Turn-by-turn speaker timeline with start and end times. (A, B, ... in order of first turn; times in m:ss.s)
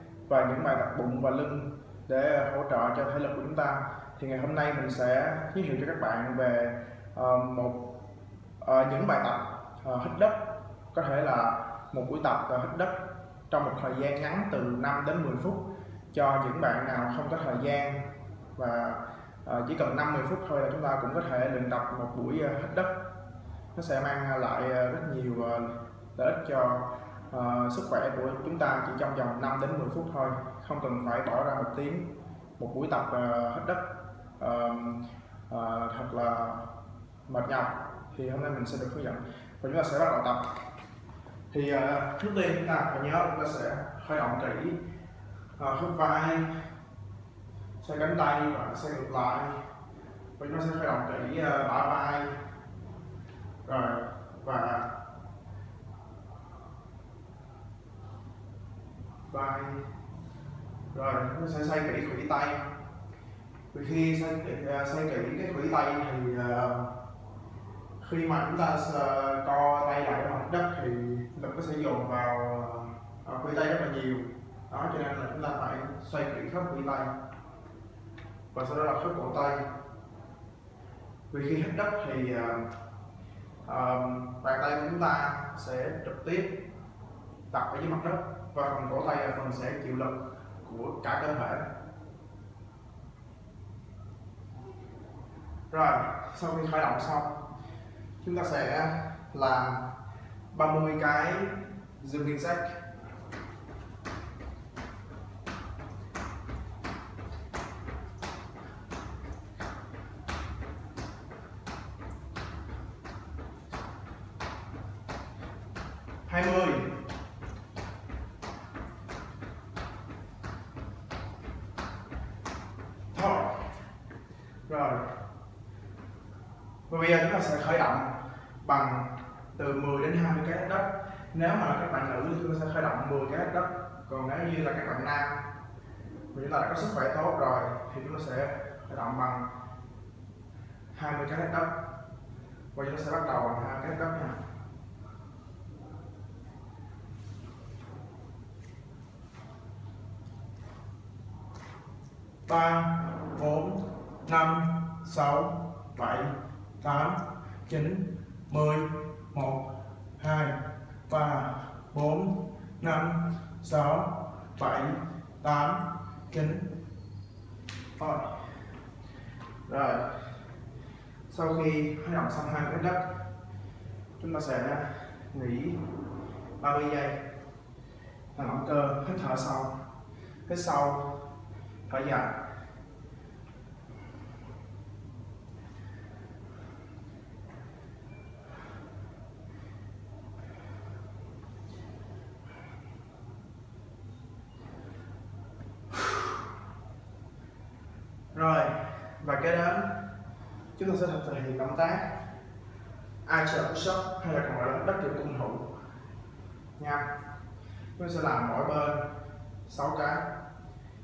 0:00.3-0:07.9 A
0:08.6-0:10.4 A
0:10.9-0:13.0 A
0:13.5-0:18.0 A
0:18.6-0:22.9 A
0:23.8-0:33.9 A
0:34.4-0:36.6 A
0:37.3-0:40.4 A
0:41.5-0:44.8 A
0:45.6-0:46.5 A
0:47.8-0:49.6 A
0:50.4-0:52.4 A
0:53.6-0:54.9 A
0:59.3-0:59.8 A
1:00.9-1:02.7 A
1:03.7-1:06.9 A
1:08.0-1:17.1 A
1:18.5-1:19.6 A
1:21.3-1:22.7 A
1:23.7-1:26.6 A
1:27.5-1:31.7 A
1:35.7-1:37.4 A
1:38.2-1:39.9 A
1:40.5-1:42.8 A
1:56.3-1:57.0 A
2:03.1-2:03.7 A
2:04.7-2:05.1 A
2:06.9-2:15.4 A
2:16.3-2:19.5 A
2:20.9-2:21.8 A
2:22.7-2:24.4 A
2:32.5-2:39.6 A
2:40.2-2:40.6 A
2:41.1-2:46.7 A
2:48.0-2:48.3 A
2:49.7-2:50.1 A
2:51.3-2:53.1 A
2:54.2-2:55.8 A
2:56.6-2:57.2 A
2:58.4-2:59.8 A
3:00.5-3:01.1 A
3:01.9-3:02.4 A
3:18.3-3:20.0 A
3:20.8-3:22.1 A
3:23.2-3:25.7 A
3:26.8-3:27.1 A
3:28.0-3:29.0 A
3:29.7-3:30.3 A